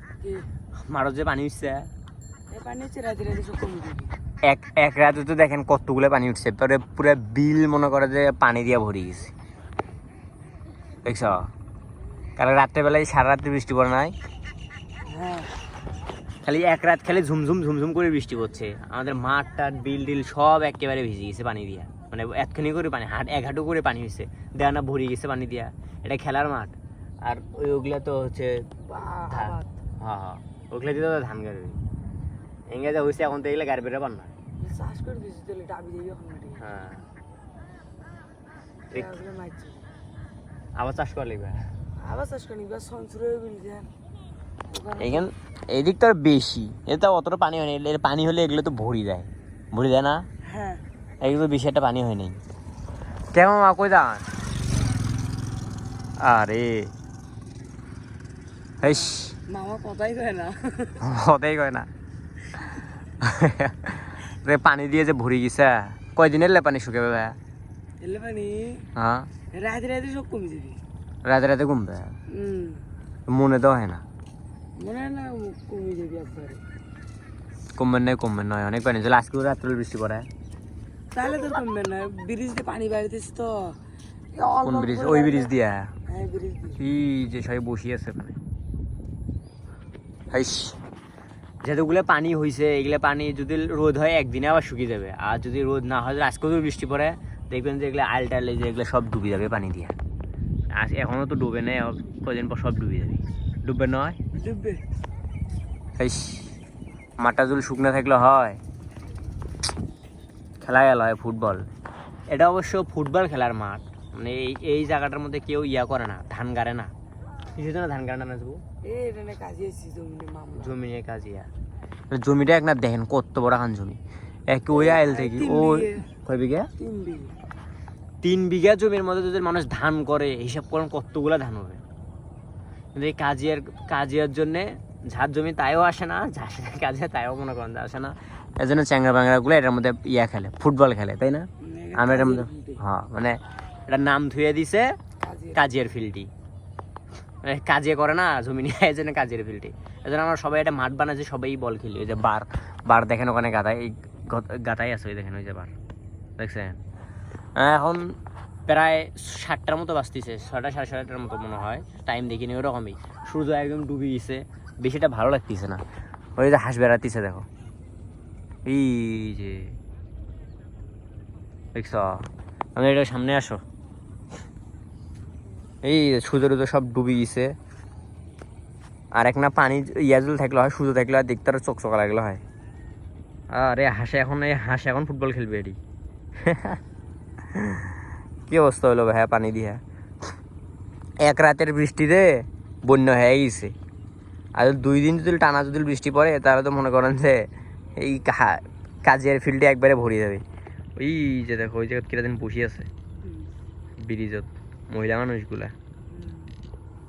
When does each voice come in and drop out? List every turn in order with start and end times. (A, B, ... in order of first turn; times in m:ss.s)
0:00.2-0:00.5 A
0:00.8-0:01.9 B
0:02.5-0:04.1 A
0:04.4-0:09.3 B
0:11.0-0:11.5 B
0:12.4-0:14.1 B
0:15.0-0:15.5 A
0:16.4-0:28.6 B
0:28.8-0:29.8 A
0:29.3-0:31.8 B
0:32.7-0:34.3 B
0:34.6-0:36.6 A
0:36.6-0:37.1 B
0:38.9-0:39.9 A
0:40.8-0:41.7 B
0:42.0-0:43.9 A
0:44.7-0:45.3 A
0:45.0-0:50.2 B
0:50.4-0:50.8 A
0:51.2-0:52.4 B
0:53.3-0:54.3 B
0:56.2-0:56.9 B
0:58.8-0:59.4 B
0:58.8-1:01.0 A
1:01.0-1:01.9 B
1:03.2-1:07.4 B
1:08.0-1:08.9 A
1:09.0-1:09.3 B
1:09.5-1:10.8 A
1:11.2-1:12.2 B
1:12.3-1:12.8 A
1:13.3-1:14.0 B
1:14.8-1:16.6 A
1:17.8-1:20.3 B
1:21.1-1:23.8 A
1:24.3-1:25.5 A
1:24.6-1:25.9 B
1:26.1-1:26.8 A
1:26.8-1:28.4 B
1:30.3-1:30.8 B
1:31.6-1:39.9 B
1:40.7-1:44.2 B
1:44.3-1:44.8 A
1:46.0-1:46.5 B
1:47.2-1:48.6 B
1:50.6-1:51.6 B
1:52.3-1:56.9 B
1:57.5-1:58.6 B
1:58.8-2:00.7 A
2:00.6-2:01.5 B
2:02.1-2:06.7 B
2:04.7-2:06.1 A
2:06.8-2:07.4 A
2:08.2-2:11.8 B
2:12.9-2:24.9 B
2:21.6-2:22.8 A
2:25.2-2:25.6 A
2:25.5-2:26.3 B
2:27.4-2:35.7 B
2:36.4-2:36.8 B
2:37.6-2:38.2 B
2:38.7-2:45.8 B
2:46.4-2:47.5 B
2:48.6-2:49.8 B
2:51.7-2:53.6 B
2:55.8-2:57.5 B
2:59.1-3:02.4 B
3:03.5-3:05.8 B
3:06.4-3:06.8 B
3:07.5-3:07.9 B
3:08.5-3:09.8 B
3:11.2-3:13.7 B
3:14.6-3:20.4 B
3:21.0-3:22.9 B
3:23.2-3:23.5 A
3:24.0-3:25.7 B
3:26.1-3:26.5 A